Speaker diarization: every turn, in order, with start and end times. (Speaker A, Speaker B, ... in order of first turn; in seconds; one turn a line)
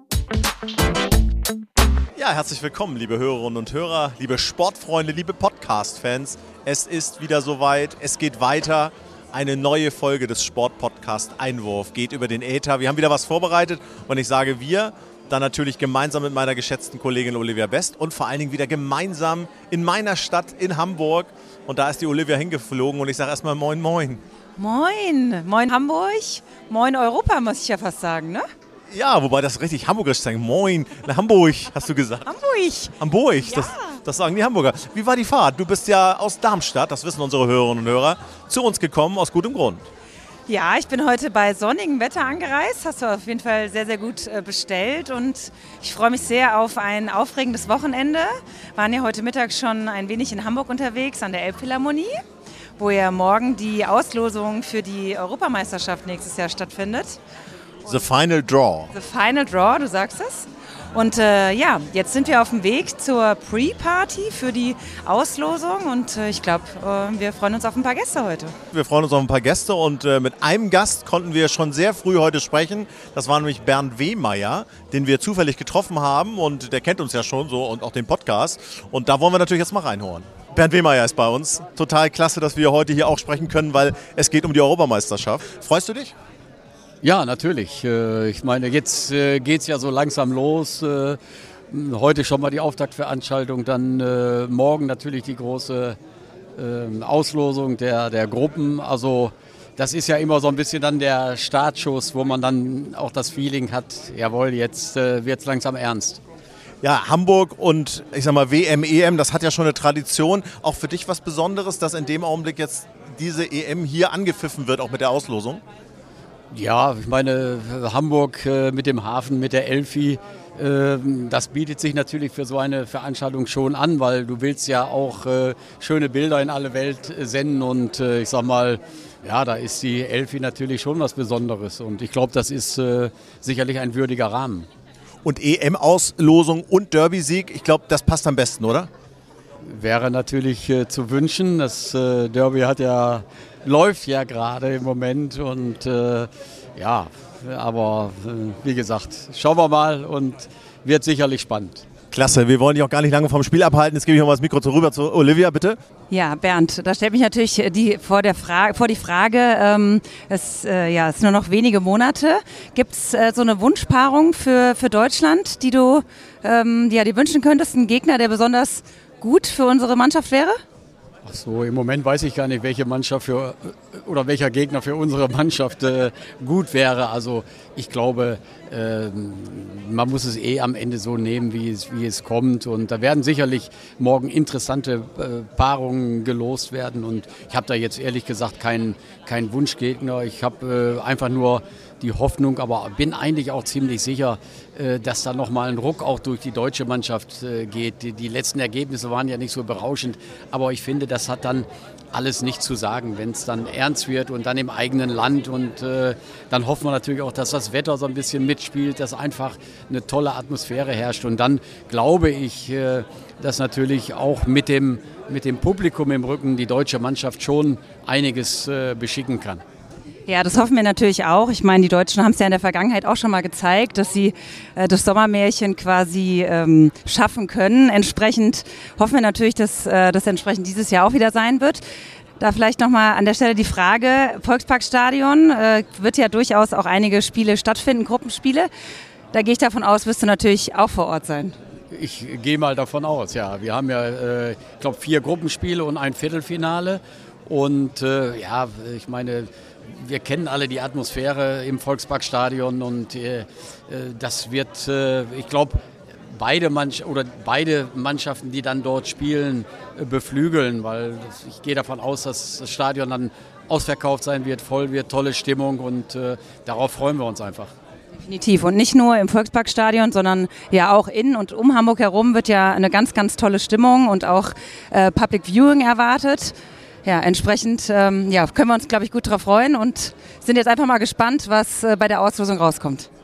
Speaker A: 2.1-24.2
Speaker B: 24.6-28.5
Speaker A: 28.9-32.3
Speaker B: 32.3-34.0
Speaker A: 33.0-39.9
Speaker B: 40.5-52.2
Speaker B: 52.8-57.2
Speaker A: 57.8-58.9
Speaker B: 58.9-68.5
Speaker A: 68.7-86.2
Speaker C: 87.0-91.2
Speaker C: 91.7-96.0
Speaker C: 96.5-106.2
Speaker A: 106.8-115.6
Speaker C: 116.5-134.7
Speaker A: 135.2-138.9
Speaker C: 139.7-151.8
Speaker A: 152.1-155.8
Speaker B: 156.1-170.6
Speaker C: 171.2-219.6
Speaker B: 220.3-231.8
Speaker B: 232.4-238.7
Speaker B: 239.3-241.6
Speaker C: 241.9-267.7
Speaker B: 268.2-283.1